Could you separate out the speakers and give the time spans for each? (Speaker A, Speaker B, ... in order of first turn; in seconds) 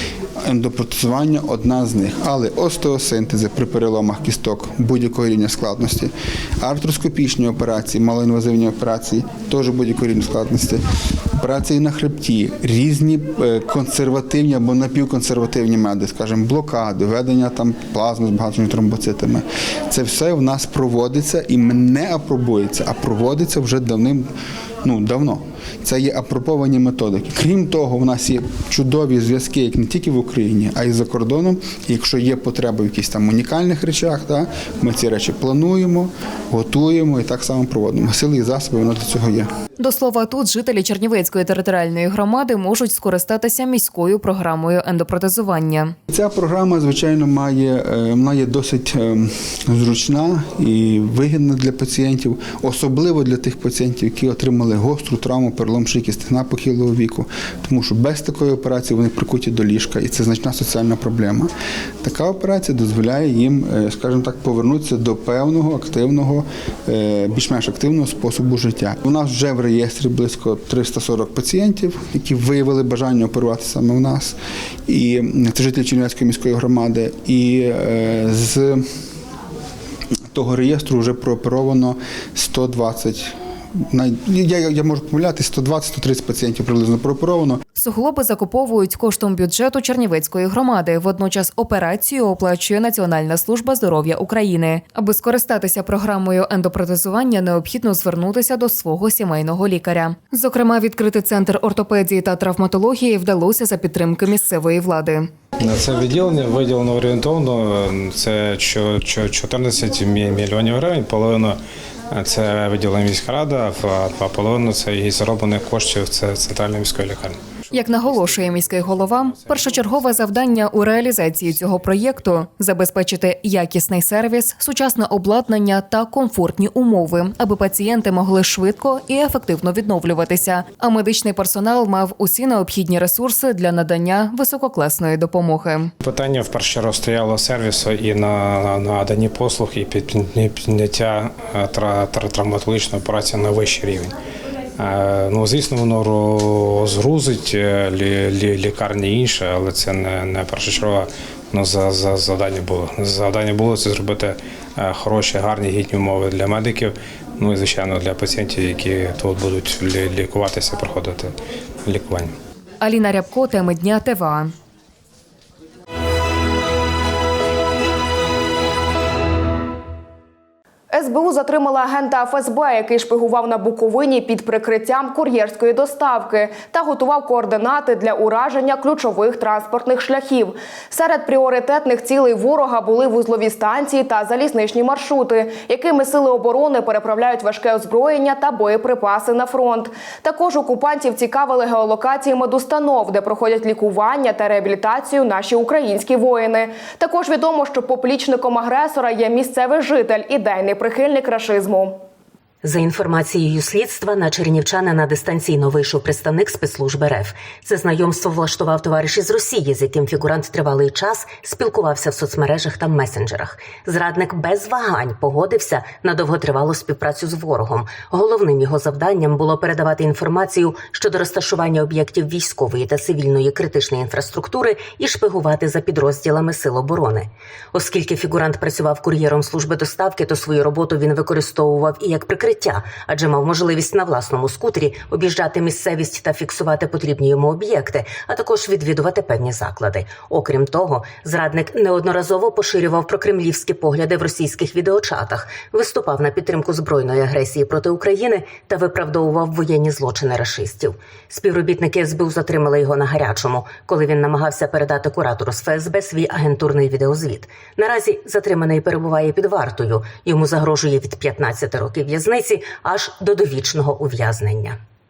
Speaker A: 0.4-10.8, 11.4-24.3, 24.8-39.5, 46.1-61.5, 62.0-78.8, 80.3-87.6
Speaker B: 39.8-45.9, 87.8-105.3, 117.7-135.9, 162.8-164.5
Speaker C: 105.6-119.6, 136.0-144.1, 144.8-162.3
Speaker D: 170.9-202.0
Speaker E: 202.6-264.8